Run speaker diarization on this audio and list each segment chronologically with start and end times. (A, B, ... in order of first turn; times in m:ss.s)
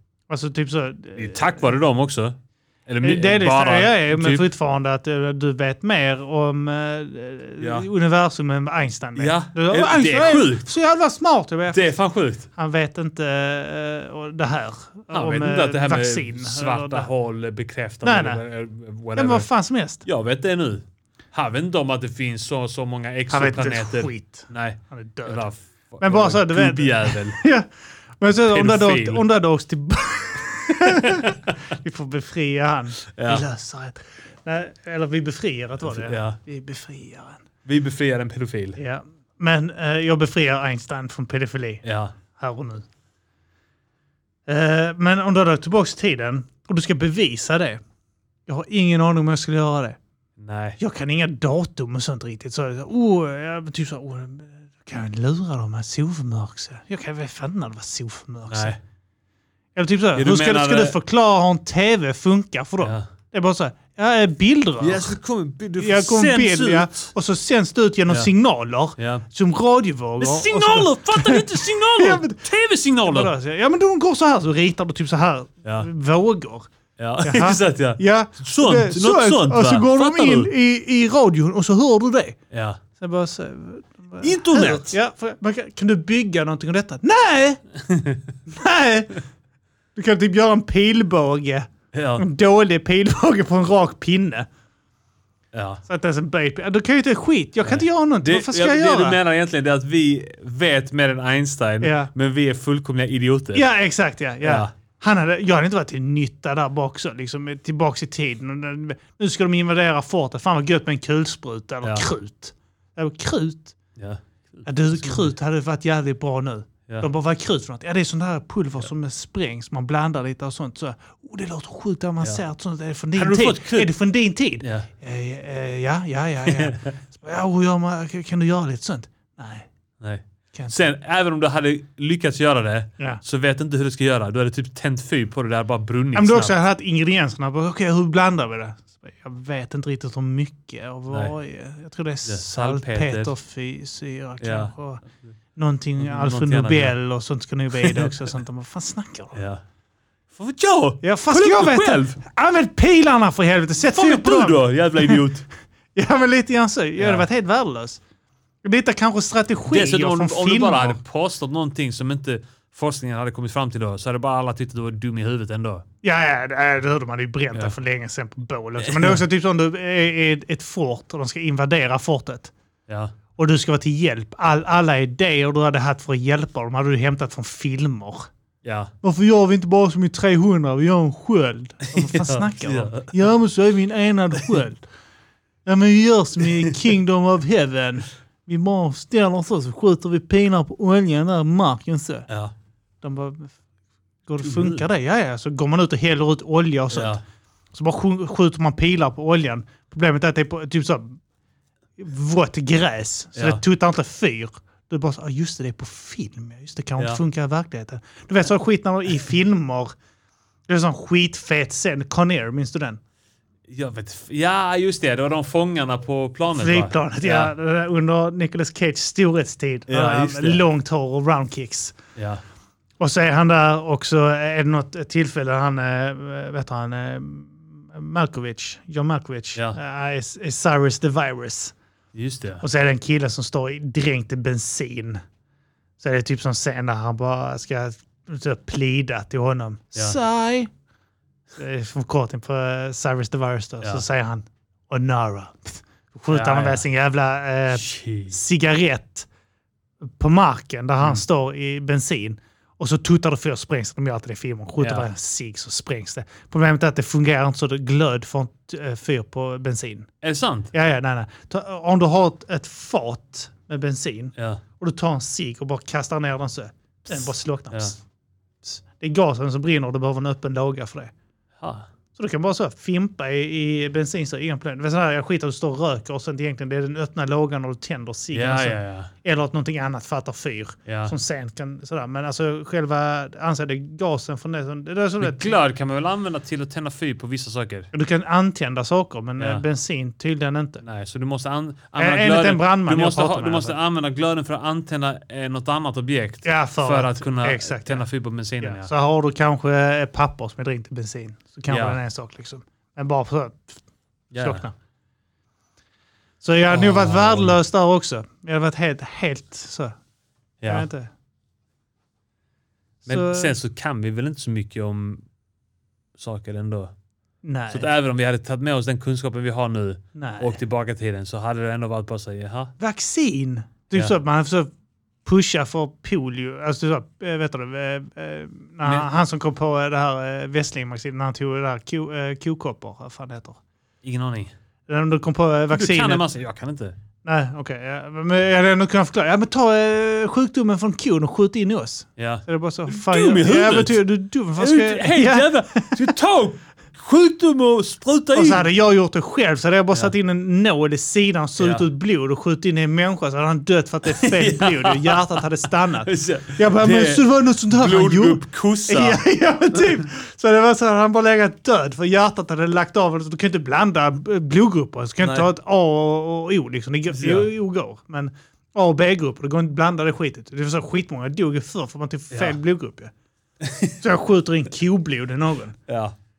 0:00.3-0:01.7 A
0:01.2-0:04.4 B
0:03.0-0:11.9 A
0:07.6-0:07.9 B
0:09.2-0:10.7 B
0:11.7-0:12.5 B
0:12.5-0:17.1 A
0:15.1-0:19.5 B
0:18.0-0:18.4 A
0:19.2-0:20.0 A
0:20.0-0:27.4 B
0:23.3-0:25.4 A
0:26.0-0:37.4 A
0:28.4-0:29.2 B
0:30.8-0:31.6 B
0:33.0-0:33.4 B
0:35.8-0:36.4 B
0:37.6-0:38.8 B
0:38.8-0:42.8 A
0:41.8-0:42.2 B
0:44.5-0:47.8 A
0:48.5-0:50.0 A
0:50.4-0:50.8 B
0:50.8-0:58.8 A
0:58.5-0:58.8 B
0:59.7-1:05.2 A
1:00.1-1:01.0 B
1:02.8-1:03.1 B
1:04.8-1:07.1 B
1:05.8-1:12.4 A
1:09.0-1:09.2 B
1:10.2-1:13.3 B
1:13.0-1:16.7 A
1:17.0-1:20.5 B
1:17.2-1:22.4 A
1:22.5-1:22.8 B
1:23.0-1:27.6 A
1:24.2-1:24.9 B
1:27.8-1:28.3 B
1:28.5-1:29.1 A
1:30.0-1:34.5 A
1:31.9-1:32.2 B
1:35.5-1:35.8 B
1:35.9-1:39.2 A
1:37.6-1:43.6 B
1:41.8-1:42.1 A
1:43.5-1:53.7 A
1:44.4-1:44.7 B
1:54.0-1:55.3 B
1:54.6-2:09.7 A
2:03.1-2:03.9 B
2:04.6-2:04.9 B
2:06.5-2:07.0 B
2:10.0-2:16.5 B
2:10.5-2:10.8 A
2:16.1-2:25.0 A
2:22.2-2:23.3 B
2:24.4-2:25.3 B
2:25.6-2:29.4 A
2:26.0-2:26.9 B
2:27.8-2:28.1 B
2:29.3-2:29.6 B
2:30.3-2:32.2 B
2:31.0-2:35.2 A
2:33.8-2:35.4 B
2:35.9-2:38.0 A
2:37.0-2:37.2 B
2:38.6-2:41.0 A
2:39.7-2:45.8 B
2:46.0-2:52.5 A
2:48.8-2:49.2 B
2:52.9-2:53.1 B
2:53.4-2:58.3 A
2:58.6-2:58.9 B
2:59.0-3:04.8 A
3:01.8-3:03.1 B
3:05.6-3:12.3 A
3:12.3-3:12.5 B
3:13.0-3:13.6 A
3:14.3-3:17.2 A
3:14.4-3:14.8 B
3:16.9-3:17.2 B
3:17.7-3:21.2 A
3:22.0-3:30.0 A
3:23.3-3:23.6 B
3:30.7-3:33.0 A
3:33.7-3:37.5 B
3:36.5-3:42.0 A
3:39.9-3:40.6 B
3:42.2-3:42.4 B
3:43.0-3:51.7 A
3:52.1-3:52.6 B
3:52.6-3:55.2 A
3:56.0-4:00.7 A
4:01.5-4:09.3 A
4:06.3-4:06.8 B
4:07.7-4:08.4 B
4:10.0-4:20.1 A
4:14.8-4:15.1 B
4:20.2-4:20.7 B
4:20.7-4:28.0 A
4:24.4-4:24.6 B
4:27.7-4:28.0 B
4:28.6-4:31.1 A
4:31.6-4:31.9 B
4:32.1-4:45.6 A
4:38.3-4:39.1 B
4:40.8-4:41.2 B
4:45.2-4:47.9 B
4:47.9-4:50.8 A
4:49.4-4:49.6 B
4:50.8-4:58.9 B
4:52.0-4:53.8 A
4:56.4-4:58.1 A
4:58.6-5:03.8 A
5:01.7-5:02.0 B
5:04.3-5:04.6 B
5:04.4-5:04.7 A
5:06.4-5:09.9 A
5:06.7-5:07.6 B
5:10.6-5:10.9 B
5:10.7-5:11.1 A
5:13.0-5:13.5 A
5:13.0-5:15.2 B
5:16.2-5:16.9 B
5:17.4-5:17.9 A
5:17.7-5:22.7 B
5:20.1-5:20.6 A
5:22.8-5:24.7 A
5:25.2-5:33.6 A
5:28.8-5:29.1 B
5:34.0-5:34.5 B
5:34.9-5:36.2 A
5:35.7-5:36.9 B
5:37.2-5:46.0 A
5:42.2-5:44.0 B
5:44.6-5:48.7 B
5:48.3-6:13.1 A
5:51.6-5:51.8 B
5:54.1-5:55.4 B
5:56.0-5:59.2 B
6:05.2-6:05.5 B
6:07.1-6:07.5 B
6:12.3-6:12.6 B
6:13.6-6:14.0 B
6:14.0-6:15.8 A
6:15.9-6:16.1 B